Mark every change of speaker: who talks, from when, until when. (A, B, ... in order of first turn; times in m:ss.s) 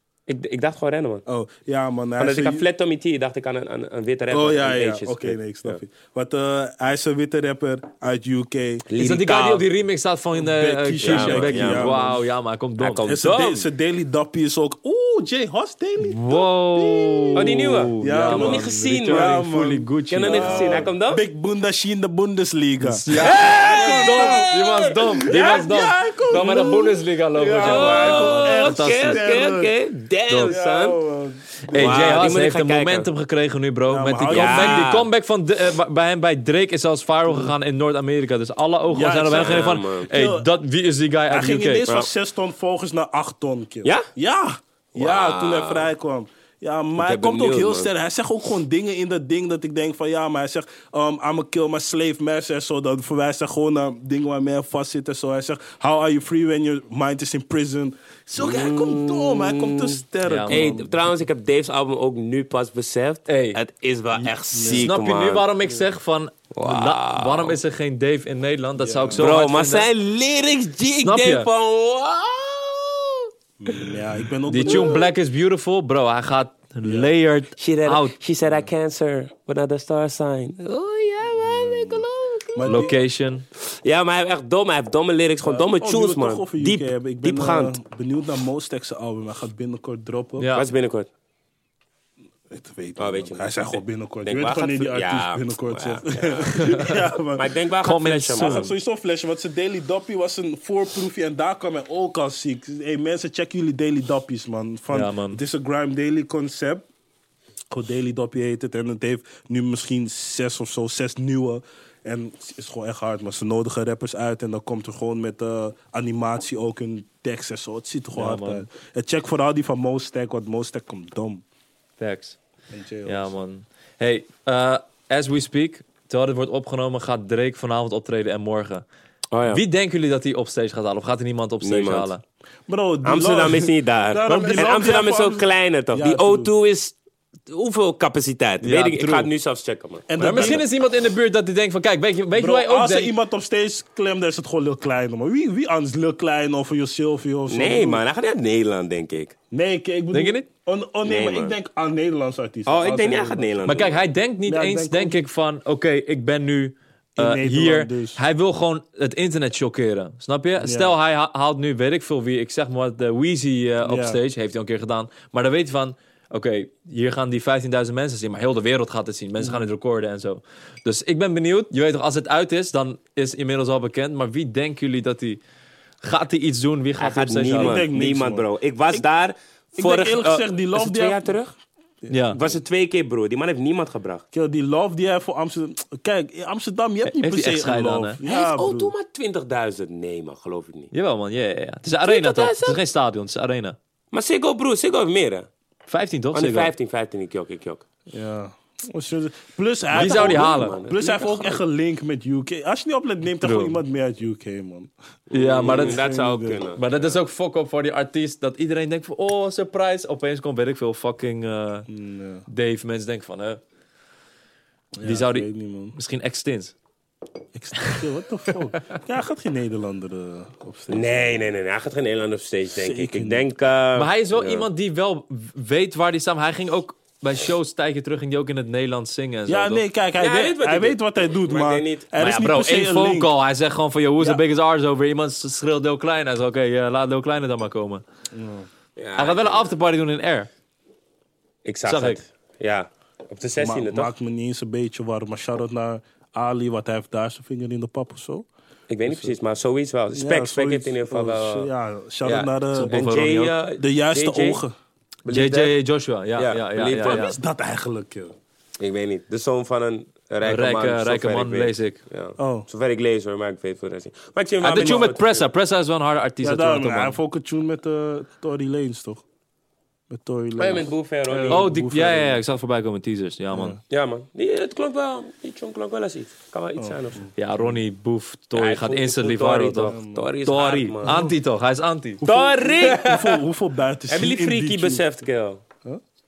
0:00.3-0:01.2 A
0:01.3-0:02.6 B
0:02.2-0:05.8 A
0:04.3-0:08.9 B
0:08.9-0:09.6 A
0:09.0-0:13.1 C
0:10.4-0:12.2 B
0:11.0-0:12.0 A
0:12.8-0:13.7 A
0:13.1-0:24.5 B
0:16.0-0:20.9 C
0:17.4-0:19.4 A
0:20.1-0:21.2 A
0:22.8-0:29.3 C
0:23.2-0:25.6 A
0:25.2-0:29.7 B
0:27.6-0:31.0 A
0:30.3-0:30.6 C
0:30.5-0:32.3 B
0:31.7-0:41.9 C
0:31.7-0:33.1 A
0:33.9-0:34.9 B
0:34.3-0:35.1 A
0:38.9-0:40.5 B
0:39.3-0:40.1 A
0:41.3-1:00.9 B
0:45.0-0:45.9 A
0:47.0-0:47.9 A
0:58.4-1:05.5 A
1:00.2-1:00.8 C
1:03.3-1:03.6 C
1:04.5-1:04.9 B
1:04.6-1:09.9 C
1:06.5-1:07.6 A
1:08.8-1:09.3 B
1:09.2-1:14.0 A
1:11.0-1:11.5 C
1:13.6-1:15.1 B
1:14.5-1:18.2 C
1:14.6-1:15.1 A
1:16.8-1:17.1 B
1:17.6-1:22.9 A
1:21.4-1:22.0 B
1:22.6-1:23.0 B
1:22.7-1:23.4 C
1:23.6-1:27.8 A
1:25.4-1:30.5 B
1:30.4-1:30.7 C
1:30.5-1:31.1 A
1:32.5-1:37.5 B
1:33.0-1:38.7 A
1:37.8-1:38.7 C
1:38.4-1:46.9 B
1:44.9-1:45.4 C
1:47.7-2:01.4 B
1:58.2-1:58.7 C
2:02.0-2:02.4 C
2:02.7-2:03.3 B
2:03.0-2:08.8 C
2:09.3-2:09.6 A
2:09.5-2:12.2 C
2:11.6-2:12.1 A
2:12.7-2:16.5 B
2:13.0-2:17.0 A
2:17.5-2:20.6 A
2:18.6-2:19.3 C
2:20.1-2:20.7 B
2:20.2-2:23.1 C
2:22.4-2:28.0 B
2:27.5-2:29.4 A
2:29.5-2:33.8 B
2:30.1-2:30.5 C
2:31.0-2:31.6 A
2:32.7-2:34.0 A
2:33.7-2:55.4 C
2:34.5-2:35.2 B
2:37.2-2:38.2 B
2:40.6-2:41.0 B
2:43.8-2:44.2 B
2:49.4-2:49.6 B
2:56.0-2:57.8 C
2:57.0-3:01.5 A
2:57.5-2:59.0 B
2:59.8-3:01.3 B
3:02.1-3:02.4 C
3:02.3-3:04.2 A
3:04.3-3:08.9 B
3:07.1-3:08.2 C
3:08.2-3:10.9 A
3:10.9-3:13.8 C
3:12.0-3:12.8 A
3:14.1-3:15.5 A
3:15.9-3:16.7 C
3:16.3-3:17.8 A
3:18.1-3:24.9 B
3:19.9-3:20.8 C
3:19.9-3:21.6 A
3:23.4-3:23.8 C
3:25.3-3:27.1 A
3:25.3-3:26.1 C
3:25.6-3:26.6 B
3:26.8-3:31.9 C
3:31.9-3:32.5 B
3:32.5-3:33.6 C
3:35.0-3:36.0 B
3:35.0-3:36.7 C
3:37.5-3:41.4 B
3:40.9-3:44.7 A
3:42.8-3:43.4 B
3:44.0-3:49.8 C
3:49.5-3:53.3 B
3:50.2-3:52.1 A
3:52.2-3:58.0 C
3:58.3-3:58.7 B
3:59.0-3:59.7 A
3:59.2-4:00.5 C
4:01.6-4:04.1 A
4:01.9-4:02.2 C
4:03.6-4:08.5 B
4:08.9-4:11.7 A
4:09.1-4:09.3 B
4:10.1-4:13.2 B
4:12.2-4:14.6 A
4:12.8-4:13.6 C
4:13.8-4:14.7 B
4:15.2-4:15.8 A
4:15.3-4:17.4 C
4:16.4-4:17.3 A
4:17.0-4:18.4 B
4:18.8-4:25.5 A
4:20.4-4:22.0 C
4:22.4-4:22.7 B
4:24.6-4:27.2 C
4:24.7-4:25.1 B
4:26.4-4:29.2 B
4:30.1-4:32.4 B
4:30.6-4:31.7 A
4:31.5-4:33.8 C
4:33.5-4:33.8 B
4:33.9-4:37.3 A
4:36.8-4:37.8 B
4:37.4-4:42.3 C
4:38.6-4:41.2 A
4:39.8-4:40.3 B
4:41.0-4:41.4 B
4:42.2-4:45.1 B
4:42.2-4:43.4 A
4:44.1-4:45.6 A